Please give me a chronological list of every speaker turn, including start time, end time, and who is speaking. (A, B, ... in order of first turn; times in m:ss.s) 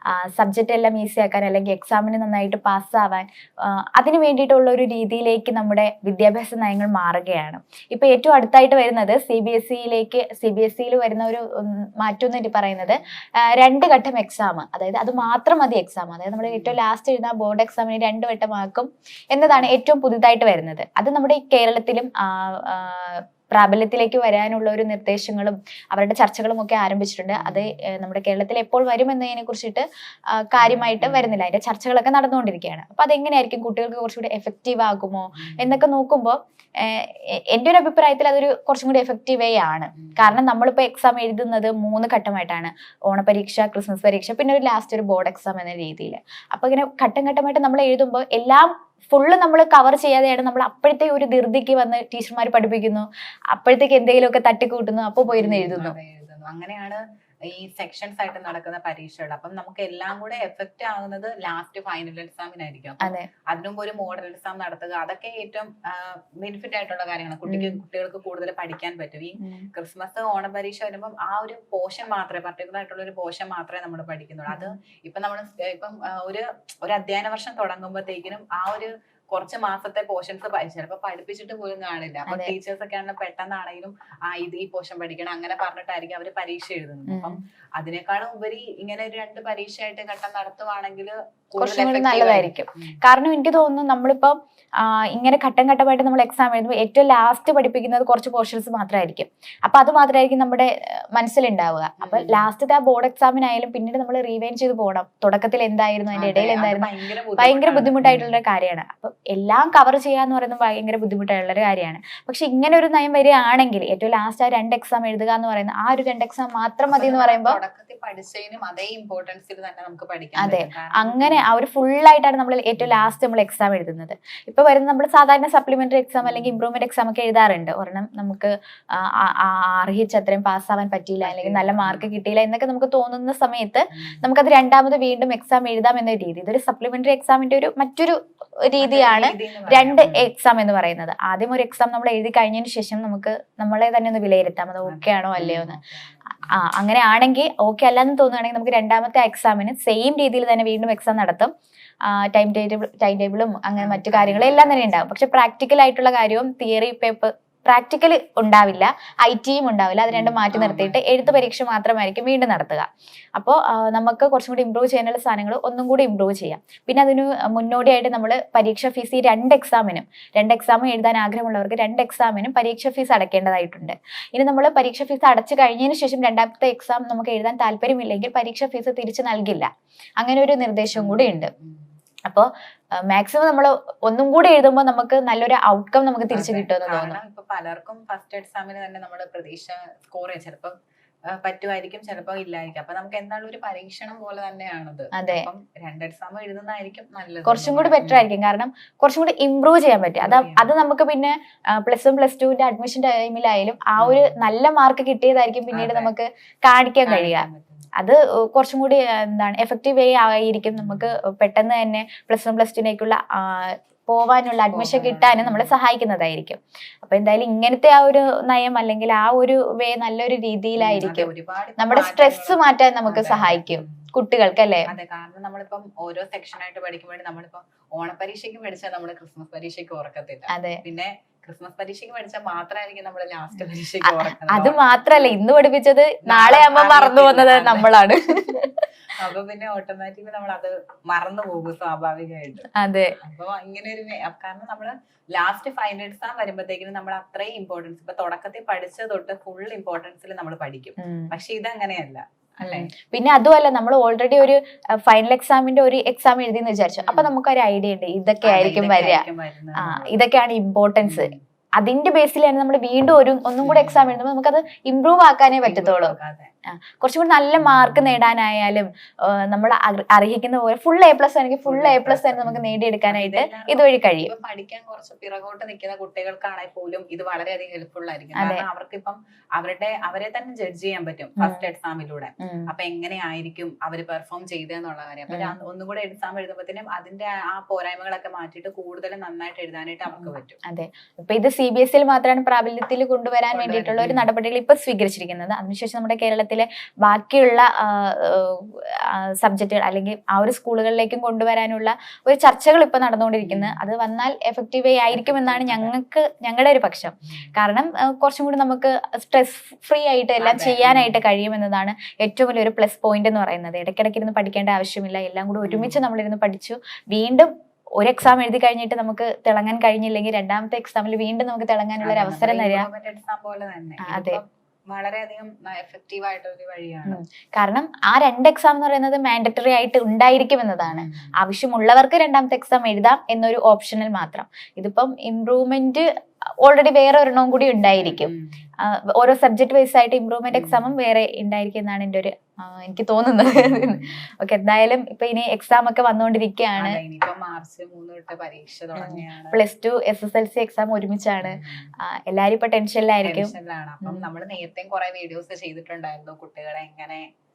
0:00.4-0:03.3 A
0:04.0-0:29.8 A
0:12.8-0:13.1 B
0:16.4-0:16.8 B
0:19.5-0:19.7 B
0:27.4-0:27.8 B
0:30.5-0:56.0 A
0:30.6-0:31.4 B
0:35.4-0:35.8 B
0:40.0-0:40.4 B
0:55.3-1:33.0 B
1:07.5-1:07.8 A
1:09.4-1:09.7 A
1:22.3-1:22.5 A
1:27.1-1:27.4 A
1:31.6-1:46.9 A
1:42.0-1:42.5 B
1:46.2-1:48.4 B
1:47.4-1:57.6 A
1:56.9-2:01.5 B
2:00.4-2:18.2 A
2:02.8-2:03.2 B
2:06.2-2:06.6 B
2:11.2-2:12.1 B
2:18.7-2:25.8 A
2:18.8-2:20.3 B
2:24.9-2:26.6 B
2:26.5-2:31.5 A
2:32.1-2:59.7 A
2:33.8-2:34.9 B
2:40.1-2:41.5 B
3:00.2-3:01.5 A
3:01.0-3:01.9 B
3:03.1-3:07.2 A
3:06.3-3:10.8 B
3:11.3-3:18.3 B
3:15.1-3:15.5 A
3:17.5-3:27.5 A
3:20.2-3:20.7 B
3:24.0-3:24.4 B
3:25.7-3:26.1 B
3:27.1-3:27.9 B
3:28.0-3:44.9 A
3:30.7-3:31.2 B
3:34.7-3:35.7 B
3:40.8-3:44.1 B
3:44.9-3:55.4 B
3:50.5-3:50.8 A
3:54.1-3:58.7 A
3:56.2-3:57.9 B
3:59.2-4:02.7 B
4:02.8-4:03.1 A
4:03.2-4:12.9 B
4:11.0-4:11.3 A
4:12.6-4:19.2 A
4:17.1-4:17.3 B
4:18.4-4:20.2 B
4:19.8-4:26.2 A
4:21.0-4:21.4 B
4:23.6-4:24.2 B
4:25.6-4:26.5 B
4:26.8-4:34.3 A
4:27.6-4:28.2 B
4:31.7-4:50.6 B
4:38.4-4:38.6 A
4:41.4-4:41.6 A
4:42.4-4:42.7 A
4:45.3-4:45.5 A
4:50.1-5:22.9 A
4:53.5-4:54.3 B
5:03.4-5:03.8 B
5:05.1-5:05.9 B
5:10.4-5:11.2 B
5:15.6-5:16.0 B
5:22.0-5:27.2 B
5:24.1-5:24.4 A
5:27.1-5:36.1 A
5:30.9-5:31.3 B
5:36.6-5:38.3 A
5:38.0-5:38.6 B
5:39.2-5:47.0 A
5:40.5-5:40.9 B
5:43.4-5:44.2 B
5:46.8-5:49.6 B
5:49.0-5:53.5 A
5:51.4-5:51.9 B
5:53.2-5:57.2 B